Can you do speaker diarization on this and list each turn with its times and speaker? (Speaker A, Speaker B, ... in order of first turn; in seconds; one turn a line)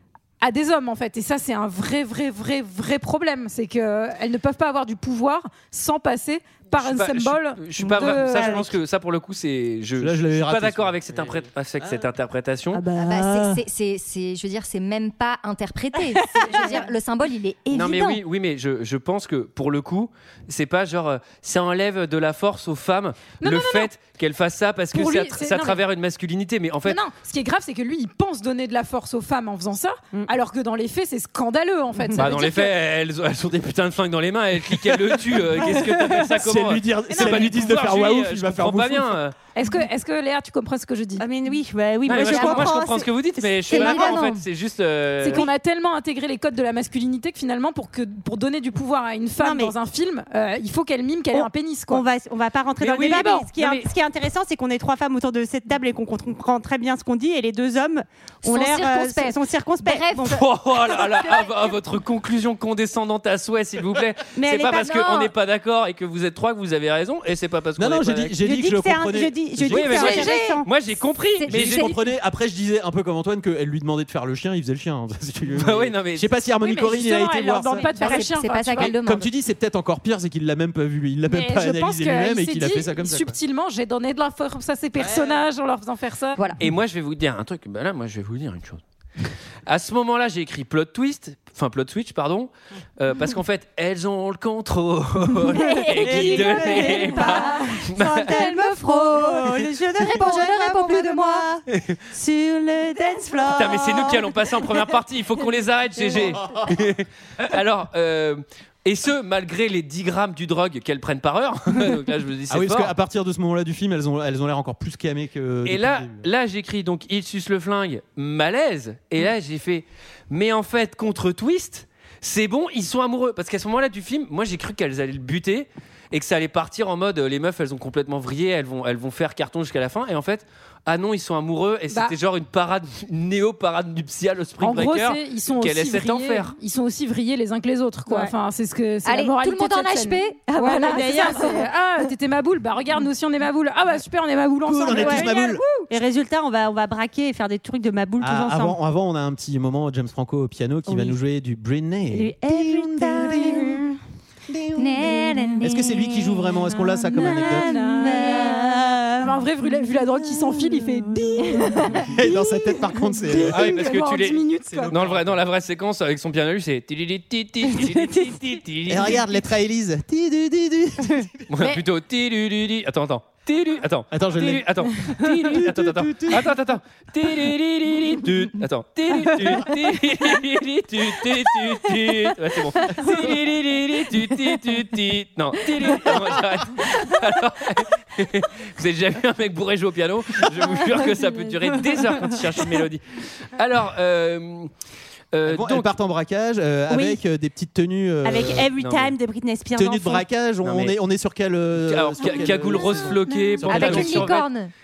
Speaker A: 0.4-8.6
Speaker B: 6.7-12.8
Speaker C: 7.8-8.7
Speaker D: 10.0-12.1
Speaker C: 12.7-13.6
Speaker E: 13.0-18.2
Speaker C: 16.1-16.6
Speaker A: 16.4-16.9
Speaker B: 17.7-27.0
Speaker A: 23.4-23.9
Speaker A: 24.9-25.8
Speaker A: 26.8-32.7
Speaker B: 32.1-39.3
Speaker D: 35.6-39.2
Speaker A: 37.1-37.8
Speaker A: 39.5-41.2
Speaker C: 41.2-44.2
Speaker B: 42.0-45.5
Speaker E: 42.1-42.7
Speaker E: 43.7-44.4
Speaker A: 45.2-52.0
Speaker C: 49.4-49.7
Speaker C: 51.3-60.4
Speaker B: 52.8-53.9
Speaker A: 53.0-53.5
Speaker E: 58.4-61.5
Speaker B: 60.3-68.4
Speaker C: 64.4-65.3
Speaker D: 67.8-70.1
Speaker C: 68.4-70.6
Speaker B: 69.7-71.9
Speaker A: 69.9-70.5
Speaker E: 71.4-72.0
Speaker D: 71.5-77.9
Speaker B: 75.5-76.3
Speaker A: 76.6-78.9
Speaker E: 77.8-79.3
Speaker D: 78.8-83.4
Speaker A: 81.3-86.4
Speaker D: 85.0-85.4
Speaker B: 86.6-88.8
Speaker B: 89.7-98.4
Speaker C: 95.6-104.6
Speaker E: 95.6-97.6
Speaker E: 98.2-101.5
Speaker B: 101.7-102.0
Speaker B: 103.5-112.9
Speaker D: 106.4-106.8
Speaker D: 112.5-116.3
Speaker B: 115.6-136.5
Speaker A: 131.9-132.1
Speaker A: 134.6-145.8
Speaker E: 139.0-142.1
Speaker C: 140.7-141.5
Speaker D: 144.7-145.6
Speaker C: 144.9-145.4
Speaker C: 145.9-148.8
Speaker D: 148.2-153.8
Speaker C: 150.9-151.2
Speaker C: 152.1-153.9
Speaker D: 154.5-155.0
Speaker C: 154.7-161.8
Speaker E: 155.0-155.6
Speaker D: 155.6-157.8
Speaker A: 157.2-164.9
Speaker D: 162.1-163.8
Speaker B: 163.5-169.2
Speaker D: 164.6-165.4
Speaker C: 167.7-168.4
Speaker D: 168.9-171.4
Speaker B: 171.5-194.7
Speaker D: 174.1-176.4
Speaker C: 175.2-175.6
Speaker C: 183.0-183.3
Speaker B: 195.3-195.9
Speaker D: 195.4-198.7
Speaker C: 196.9-197.2
Speaker C: 198.2-200.2
Speaker B: 198.8-199.1
Speaker D: 199.7-204.3
Speaker B: 200.6-200.9
Speaker B: 201.8-204.4
Speaker E: 203.7-204.7